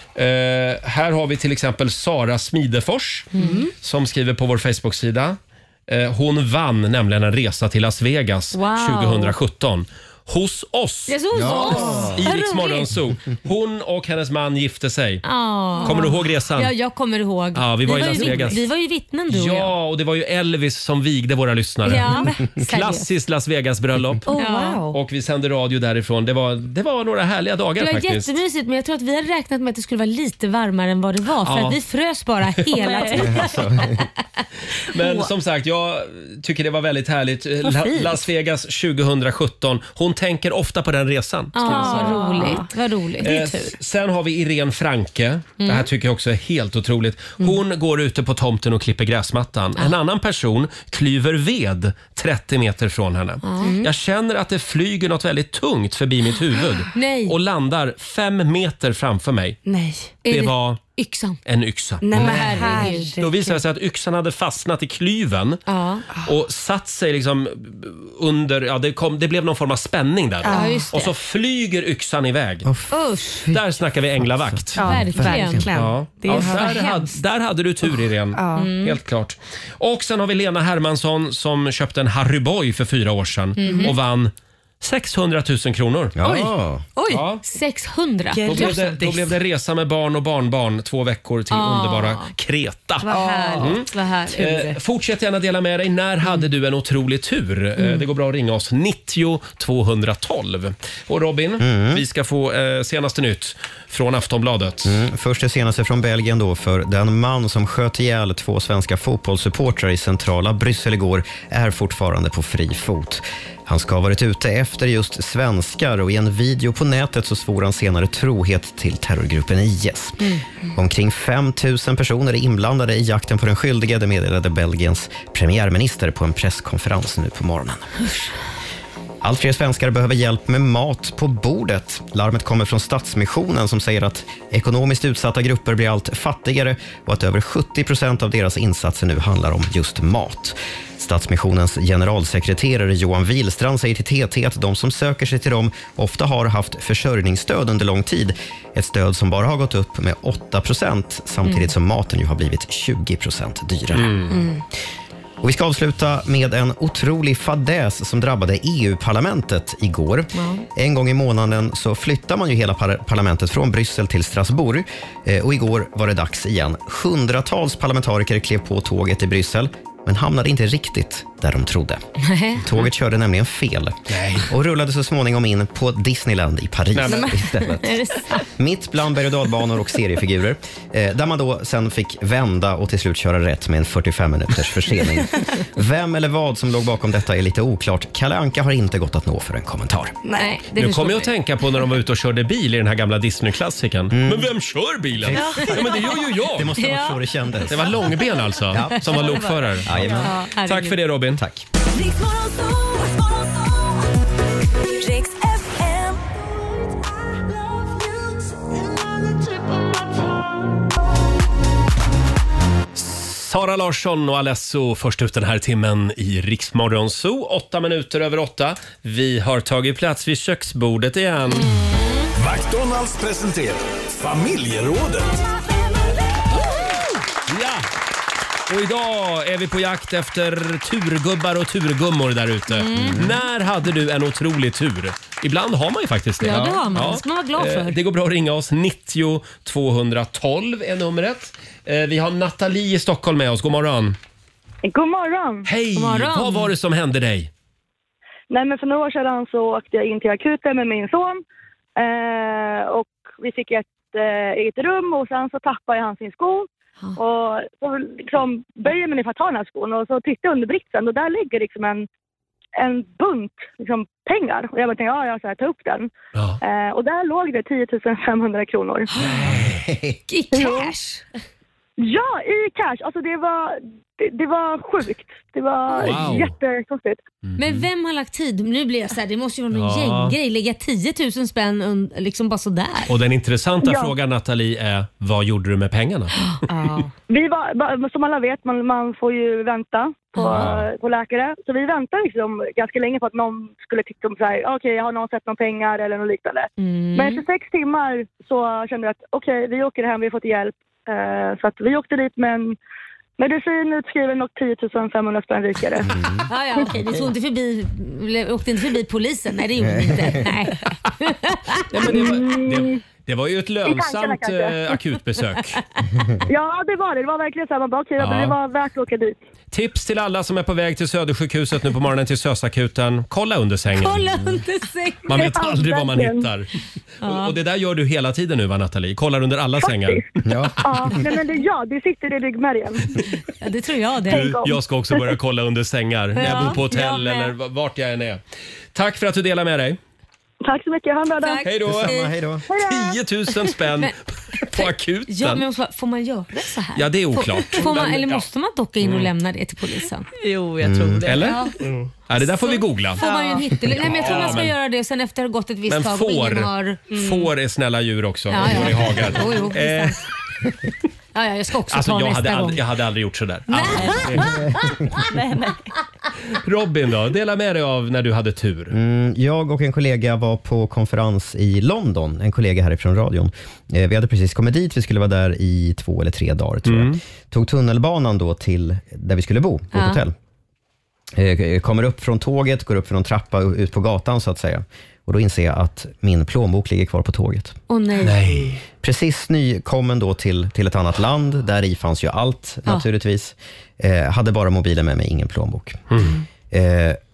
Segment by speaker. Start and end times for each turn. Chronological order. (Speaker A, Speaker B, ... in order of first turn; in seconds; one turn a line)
Speaker A: 0.1-3.3
Speaker B: 3.3-3.6
Speaker C: 3.4-3.7
Speaker A: 3.8-11.2
Speaker B: 8.5-9.3
Speaker B: 11.1-12.9
Speaker D: 11.3-12.2
Speaker A: 11.7-15.2
Speaker B: 15.2-19.7
Speaker A: 15.8-16.7
Speaker A: 17.6-18.6
Speaker C: 17.9-18.5
Speaker A: 19.3-24.2
Speaker B: 21.9-23.1
Speaker C: 24.2-25.0
Speaker B: 24.3-24.8
Speaker A: 24.9-28.4
Speaker B: 27.8-33.9
Speaker A: 31.4-31.8
Speaker C: 32.7-33.6
Speaker D: 33.2-34.0
Speaker A: 34.9-42.5
Speaker C: 34.9-35.3
Speaker C: 37.6-38.3
Speaker B: 41.5-43.3
Speaker C: 41.6-43.8
Speaker A: 43.2-59.6
Speaker B: 45.6-45.9
Speaker B: 53.4-53.8
Speaker C: 53.6-53.9
Speaker B: 56.9-57.4
Speaker C: 59.7-60.1
Speaker B: 60.2-61.4
Speaker A: 60.2-60.8
Speaker A: 61.5-65.6
Speaker C: 62.0-63.6
Speaker B: 62.1-63.2
Speaker B: 65.7-66.0
Speaker A: 66.2-72.7
Speaker C: 70.4-70.9
Speaker B: 70.5-71.1
Speaker D: 72.6-73.6
Speaker B: 72.9-73.5
Speaker A: 73.5-75.0
Speaker D: 74.2-75.7
Speaker C: 74.8-77.0
Speaker B: 74.8-75.7
Speaker A: 75.7-86.2
Speaker B: 76.3-77.0
Speaker C: 78.3-78.7
Speaker B: 78.5-79.0
Speaker B: 83.6-84.0
Speaker C: 83.7-83.9
Speaker D: 86.2-86.8
Speaker C: 86.2-87.3
Speaker A: 87.1-87.4
Speaker B: 87.5-88.8
Speaker C: 88.3-89.4
Speaker A: 88.5-93.1
Speaker B: 91.5-92.3
Speaker B: 93.0-94.6
Speaker C: 93.1-93.8
Speaker A: 93.6-105.0
Speaker C: 94.3-94.7
Speaker C: 97.8-98.0
Speaker D: 101.6-102.0
Speaker D: 104.8-127.9
Speaker D: 129.2-154.4
Speaker A: 153.9-154.3
Speaker C: 154.3-154.6
Speaker D: 155.4-172.0
Speaker B: 160.3-160.7
Speaker B: 172.2-172.6
Speaker D: 172.6-190.2
Speaker A: 174.1-174.5
Speaker A: 176.9-177.3
Speaker C: 177.1-177.5
Speaker B: 177.6-178.4
Speaker C: 190.2-190.5
Speaker B: 190.4-191.3
Speaker A: 190.8-196.7
Speaker D: 194.1-194.5
Speaker D: 195.2-195.9
Speaker C: 195.4-196.1
Speaker B: 195.4-196.0
Speaker D: 196.5-198.1
Speaker B: 196.8-197.2
Speaker A: 197.7-201.4
Speaker D: 198.7-199.3
Speaker C: 199.1-200.3
Speaker D: 199.8-200.3
Speaker B: 200.2-201.0
Speaker D: 201.3-201.7
Speaker E: 201.8-204.1
Speaker E: 204.8-206.3
Speaker E: 207.2-210.4
Speaker A: 212.9-221.8
Speaker B: 221.8-222.3
Speaker F: 222.4-225.4
Speaker A: 227.5-227.9
Speaker A: 228.7-244.2
Speaker B: 232.7-233.2
Speaker D: 233.0-233.4
Speaker B: 236.4-238.0
Speaker G: 244.8-245.7
Speaker A: 245.7-247.5
Speaker B: 245.9-246.7
Speaker G: 248.5-251.4
Speaker G: 252.0-262.1
Speaker G: 262.8-269.1
Speaker A: 269.2-269.8
Speaker D: 269.4-270.2
Speaker B: 270.3-271.2
Speaker G: 270.6-270.9
Speaker G: 272.0-277.2
Speaker A: 276.0-276.5
Speaker A: 277.4-277.9
Speaker B: 277.6-283.1
Speaker A: 279.7-280.4
Speaker A: 283.1-286.4
Speaker G: 283.8-284.1
Speaker B: 286.6-287.1
Speaker G: 287.3-302.8
Speaker B: 290.4-290.7
Speaker A: 290.5-290.8
Speaker B: 296.8-297.4
Speaker G: 303.4-306.1
Speaker D: 306.1-306.5
Speaker B: 306.5-312.2
Speaker D: 309.8-310.5
Speaker A: 311.9-315.8
Speaker G: 312.1-313.0
Speaker G: 313.8-315.0
Speaker G: 316.4-319.4
Speaker A: 318.2-318.6
Speaker A: 319.7-324.5
Speaker B: 324.0-325.5
Speaker A: 325.3-326.7
Speaker G: 325.3-326.5
Speaker B: 327.2-327.6
Speaker A: 327.2-330.2
Speaker G: 329.8-330.2
Speaker D: 330.4-331.2
Speaker G: 330.8-333.2
Speaker B: 333.6-334.5
Speaker G: 334.3-335.4
Speaker A: 334.3-338.4
Speaker B: 336.4-337.5
Speaker A: 338.9-340.0
Speaker G: 340.6-341.6
Speaker B: 341.4-342.4
Speaker A: 341.6-342.1
Speaker D: 341.9-342.7
Speaker G: 342.7-343.2
Speaker A: 342.8-345.6
Speaker B: 343.6-350.3
Speaker A: 347.0-348.5
Speaker A: 349.0-349.3
Speaker C: 350.4-352.0
Speaker D: 350.8-351.2
Speaker A: 351.2-351.6
Speaker B: 351.4-351.8
Speaker A: 352.3-353.2
Speaker B: 352.4-357.0
Speaker C: 353.2-353.7
Speaker A: 353.9-354.8
Speaker A: 355.9-360.2
Speaker C: 357.1-357.5
Speaker B: 358.5-360.2
Speaker B: 361.4-362.8
Speaker A: 361.9-364.6
Speaker B: 363.7-365.3
Speaker C: 363.9-364.6
Speaker C: 365.1-365.9
Speaker A: 366.5-368.9
Speaker D: 368.9-380.3
Speaker A: 376.9-377.2
Speaker B: 379.9-380.2
Speaker D: 381.3-387.8
Speaker B: 387.9-388.4
Speaker A: 388.2-388.8
Speaker D: 389.0-396.1
Speaker A: 396.1-396.4
Speaker D: 396.7-397.2